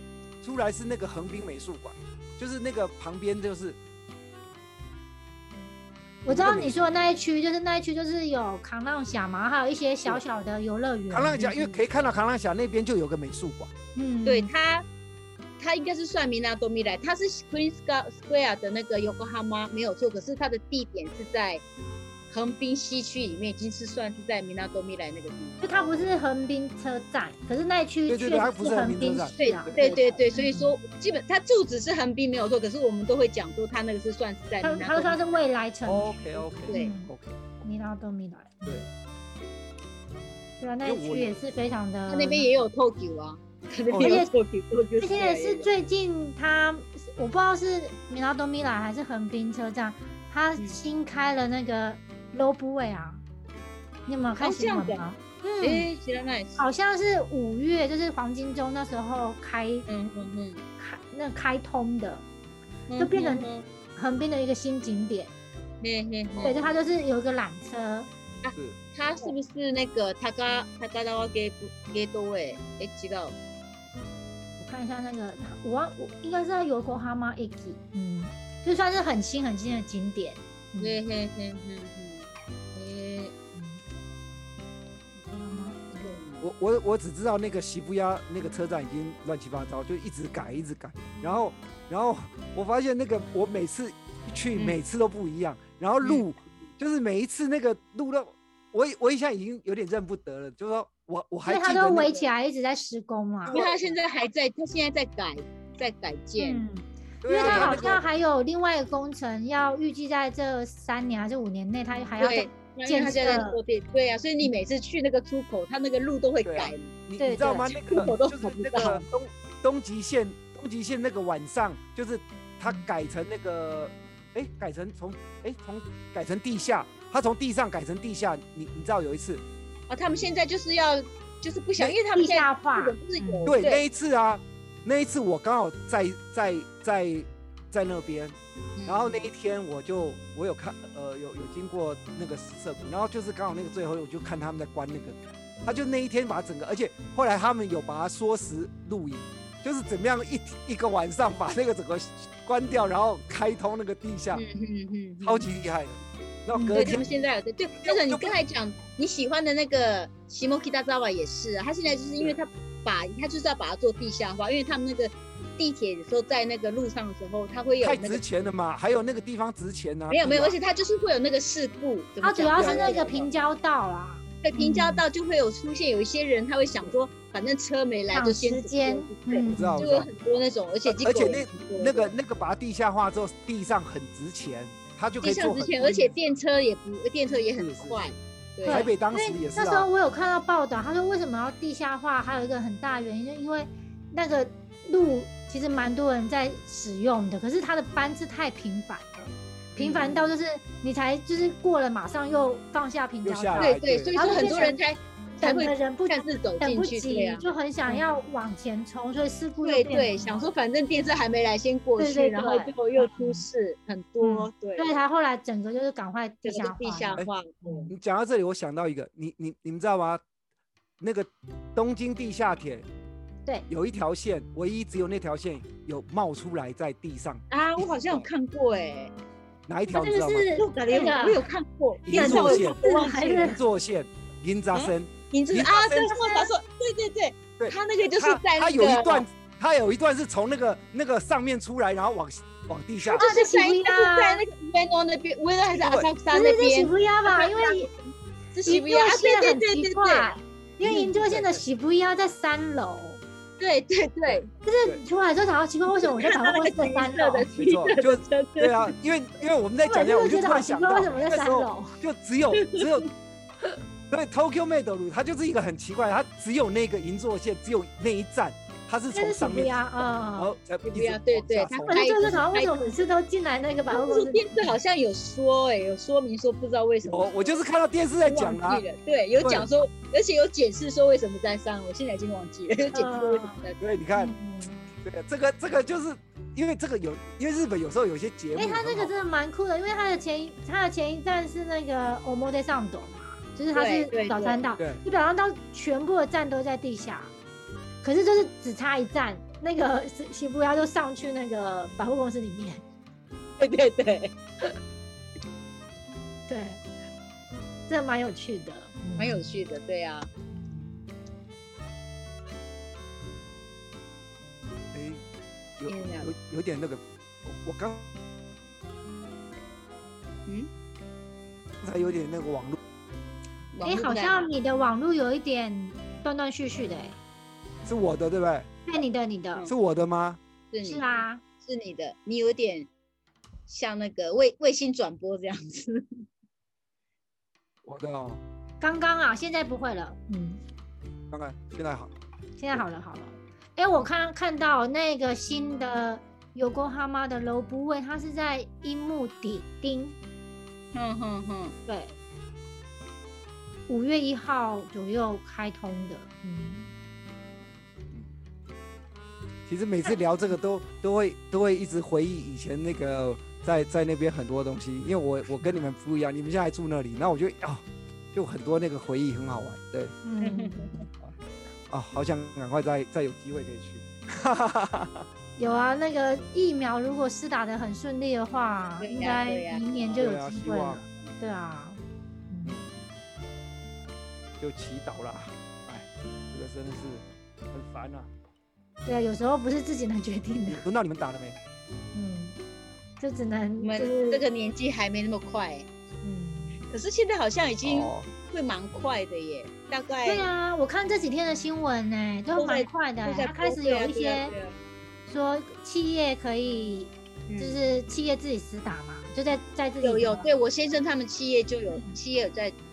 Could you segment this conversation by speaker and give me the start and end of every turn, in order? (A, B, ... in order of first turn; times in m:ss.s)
0:00.4-0:03.8 A
0:06.2-0:11.5 B
0:06.3-0:06.9 A
0:11.1-0:13.7 A
0:11.4-0:11.8 C
0:14.0-0:14.5 B
0:14.2-0:14.8 C
0:15.6-0:21.6 C
0:22.3-0:26.1 C
0:25.6-0:30.7 B
0:28.1-0:29.8 A
0:29.4-0:35.3 C
0:34.6-0:37.1 B
0:35.8-0:37.6 A
0:36.7-0:36.9 C
0:37.6-0:38.8 B
0:40.6-0:42.5 B
0:40.8-0:41.5 A
0:42.1-0:45.7 C
0:43.9-0:44.2 A
0:44.0-0:44.3 B
0:45.0-0:53.2 B
0:54.1-0:55.9 B
0:54.4-0:55.0 C
0:55.6-0:56.6 C
0:56.6-0:59.9 B
0:59.9-1:00.6 C
1:00.8-1:02.2 B
1:02.9-1:03.7 C
1:03.0-1:05.3 B
1:05.8-1:06.7 C
1:06.4-1:08.1 B
1:08.4-1:13.3 C
1:08.5-1:08.8 A
1:14.6-1:21.0 B
1:20.8-1:23.3 C
1:23.5-1:23.8 B
1:25.3-1:26.2 B
1:25.9-1:26.5 C
1:26.4-1:42.2 A
1:34.5-1:34.8 C
1:36.0-1:36.2 C
1:41.4-1:43.6 B
1:43.4-1:44.0 A
1:43.5-1:46.6 C
1:46.4-1:53.6 B
1:47.2-1:48.0 A
1:47.4-1:47.9 C
1:52.2-1:56.9 C
1:56.4-2:09.4 A
1:57.2-1:58.1 B
1:57.6-1:59.0 C
2:09.9-2:13.8 C
2:12.1-2:13.6 B
2:13.5-2:34.4 A
2:18.8-2:19.3 C
2:34.3-2:35.5 C
2:35.2-2:37.1 A
2:36.5-2:37.0 B
2:36.7-2:48.3 C
2:37.8-2:38.4 A
2:47.8-2:50.6 A
2:50.1-2:53.3 C
2:52.2-2:55.0 B
2:52.6-2:53.0 A
2:54.4-3:02.1 C
2:58.1-2:59.9 B
2:59.4-3:00.1 A
3:00.8-3:06.3 A
3:05.2-3:08.9 C
3:07.6-3:08.1 A
3:08.6-3:30.5 B
3:08.7-3:09.9 A
3:19.8-3:20.3 C
3:23.2-3:24.1 A
3:23.6-3:28.0 C
3:29.6-3:34.9 C
3:32.0-3:33.4 B
3:34.2-3:37.9 B
3:36.4-3:37.9 C
3:37.9-3:40.2 A
3:41.0-3:42.8 A
3:43.7-3:48.3 A
3:47.5-3:49.1 C
3:49.7-3:50.5 A
3:49.9-3:51.5 B
3:50.6-3:53.5 C
3:52.0-3:56.2 A
3:52.1-3:53.6 B
3:54.7-3:59.2 C
3:56.0-3:56.5 B
3:57.6-4:03.2 A
4:03.0-4:10.3 C
4:03.2-4:04.4 B
4:05.8-4:06.1 A
4:06.3-4:07.9 B
4:08.6-4:13.2 B
4:10.8-4:11.6 A
4:13.6-4:14.4 C
4:14.3-4:15.0 A
4:14.6-4:17.6 B
4:16.0-4:18.9 C
4:17.6-4:23.1 A
4:19.8-4:22.0 B
4:22.6-4:23.0 C
4:24.1-4:32.0 A
4:29.1-4:30.5 B
4:30.8-4:32.9 C
4:31.7-4:34.8 B
4:33.9-4:37.5 C
4:37.1-4:38.8 A
4:38.2-4:43.8 C
4:39.4-4:39.7 A
4:42.9-4:43.6 B
4:43.8-4:44.4 A
4:44.1-4:44.8 B
4:45.0-4:49.1 A
4:48.5-4:57.3 B
4:53.7-4:54.6 C
4:58.0-5:02.8 B
5:03.6-5:04.3 C
5:06.5-5:06.8 B
5:07.9-5:09.6 B
5:09.2-5:10.3 C
5:10.5-5:11.0 B
5:14.9-5:15.2 A
5:15.8-5:18.1 A
5:15.9-5:16.3 C
5:21.8-5:22.8 A
5:23.7-5:24.5 C
5:23.8-5:27.2 B
5:27.8-5:28.7 A
5:28.9-5:29.7 B
5:29.7-5:30.4 A
5:30.7-5:31.1 C
5:30.8-5:31.4 B
5:31.6-5:32.9 C
5:33.7-5:36.0 C
5:37.8-5:38.4 A
5:38.8-5:40.6 B
5:41.3-5:42.1 A
5:42.6-5:50.2 B
5:50.9-5:51.7 C
5:51.9-5:52.2 B
5:53.9-5:56.9 B
5:59.7-6:10.2 A
6:10.2-6:11.1 B
6:10.4-6:11.0 C
6:11.9-6:15.2 A
6:15.6-6:22.8 B
6:19.0-6:20.2 C
6:20.1-6:21.0 A
6:22.6-6:23.0 A
6:24.6-6:28.3 A
6:29.0-6:30.8 B
6:30.7-6:31.6 A
6:32.1-6:32.6 B
6:33.2-6:34.4 B
6:33.8-6:35.9 C
6:36.2-6:36.8 B
6:36.9-6:40.5 C
6:37.8-6:38.3 A
6:40.2-6:44.5 B
6:42.5-6:44.8 C
6:45.3-6:50.5 B
6:47.5-6:47.8 C
6:50.0-6:52.8 C
6:51.9-6:52.2 B